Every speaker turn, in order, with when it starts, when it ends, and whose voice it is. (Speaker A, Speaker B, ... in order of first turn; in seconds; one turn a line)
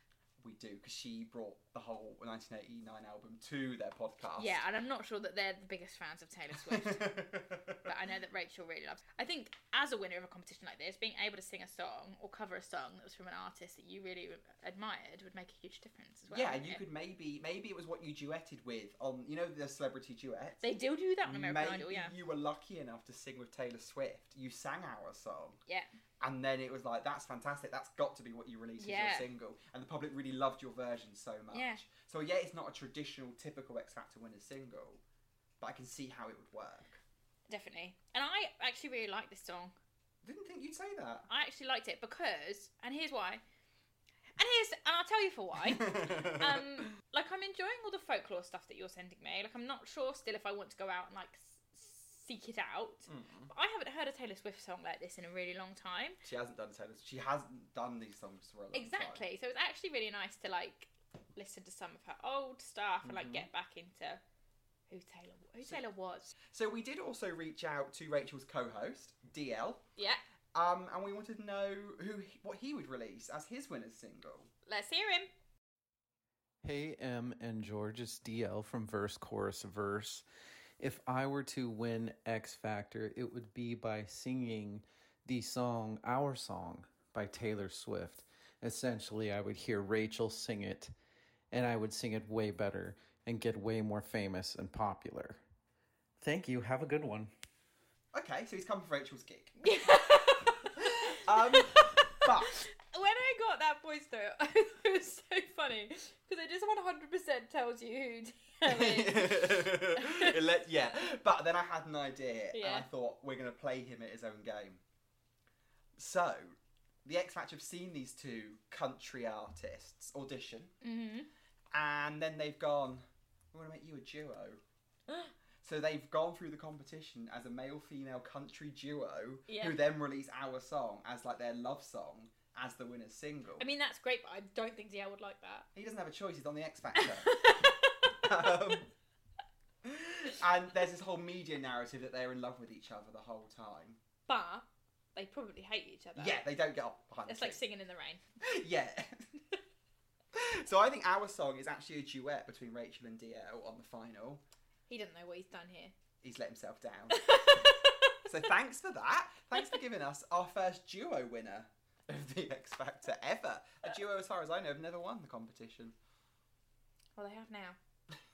Speaker A: 0.4-4.6
Speaker B: 4.4-7.1
Speaker A: 6.5-7.9
Speaker B: 7.8-16.8
Speaker A: 16.3-20.6
Speaker B: 20.6-22.1
Speaker A: 21.2-25.6
Speaker A: 26.2-35.0
Speaker B: 28.8-29.3
Speaker B: 31.5-31.8
Speaker A: 35.6-37.0
Speaker B: 37.5-39.7
Speaker A: 40.2-41.3
Speaker B: 41.3-43.4
Speaker B: 44.4-56.2
Speaker A: 45.7-46.6
Speaker A: 53.1-53.5
Speaker A: 56.2-59.2
Speaker B: 58.7-64.2
Speaker A: 63.0-63.5
Speaker B: 64.9-66.3
Speaker A: 66.5-69.8
Speaker A: 70.5-74.5
Speaker B: 74.7-75.3
Speaker C: 76.6-80.2
Speaker C: 80.8-90.9
Speaker C: 91.5-95.4
Speaker C: 96.2-97.3
Speaker A: 98.1-99.5
Speaker B: 99.6-110.4
Speaker A: 100.8-102.6
Speaker A: 108.6-114.8
Speaker B: 112.5-112.9
Speaker A: 116.0-120.7
Speaker B: 120.8-121.3
Speaker A: 121.7-124.6
Speaker A: 125.6-133.7
Speaker B: 129.5-129.8
Speaker B: 133.6-135.7
Speaker A: 135.7-138.9
Speaker B: 137.0-138.5
Speaker A: 139.8-144.0
Speaker B: 144.3-146.4
Speaker A: 146.2-147.6
Speaker B: 147.3-148.2
Speaker A: 148.4-149.3
Speaker A: 150.3-154.4
Speaker B: 154.9-155.9
Speaker A: 156.2-165.9
Speaker B: 157.2-157.8
Speaker B: 167.2-167.8